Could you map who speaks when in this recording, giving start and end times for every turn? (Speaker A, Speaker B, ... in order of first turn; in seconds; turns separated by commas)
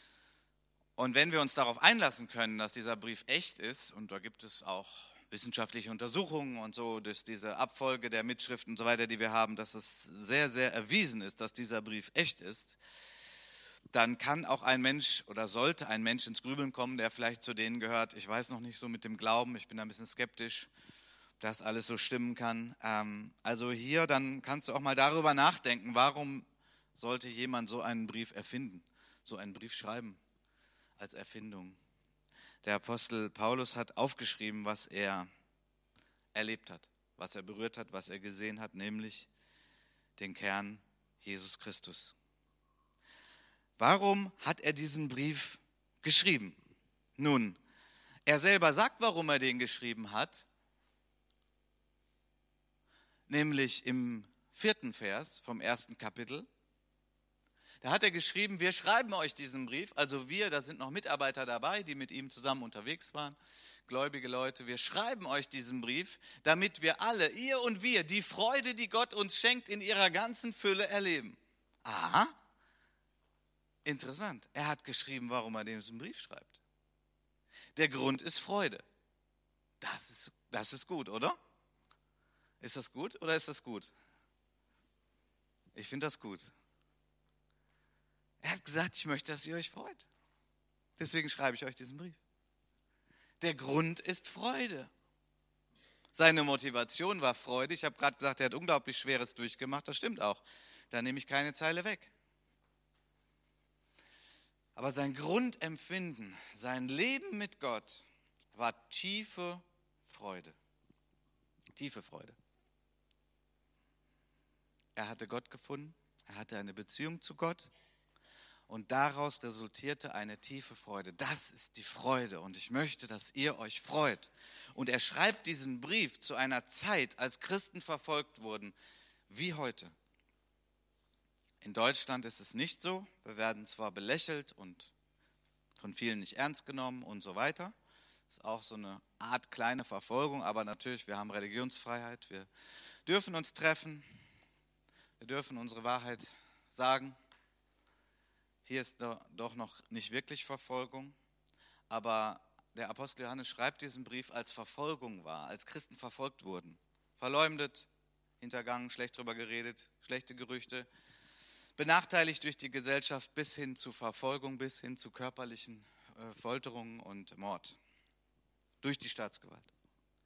Speaker A: 1.0-12.8, Speaker A: 13.9-20.7, Speaker A: 21.4-30.2, Speaker A: 31.0-31.8, Speaker A: 32.6-35.3, Speaker A: 36.3-39.3, Speaker A: 40.2-42.1, Speaker A: 43.8-46.6, Speaker A: 47.2-47.6, Speaker A: 48.3-50.5, Speaker A: 53.3-56.5, Speaker A: 57.8-72.3, Speaker A: 73.8-76.6, Speaker A: 77.8-78.8, Speaker A: 79.8-81.4, Speaker A: 82.6-83.9, Speaker A: 85.7-86.5, Speaker A: 88.4-90.1, Speaker A: 91.0-92.2, Speaker A: 93.4-94.9, Speaker A: 96.1-102.1, Speaker A: 104.8-110.6, Speaker A: 111.8-112.4, Speaker A: 115.0-117.7, Speaker A: 118.7-128.8, Speaker A: 129.3-129.9, Speaker A: 131.6-134.9, Speaker A: 135.8-137.7, Speaker A: 138.3-142.5, Speaker A: 143.1-144.1, Speaker A: 145.2-147.2, Speaker A: 148.7-151.2, Speaker A: 151.9-157.9, Speaker A: 158.4-160.9, Speaker A: 161.8-167.8, Speaker A: 168.8-169.7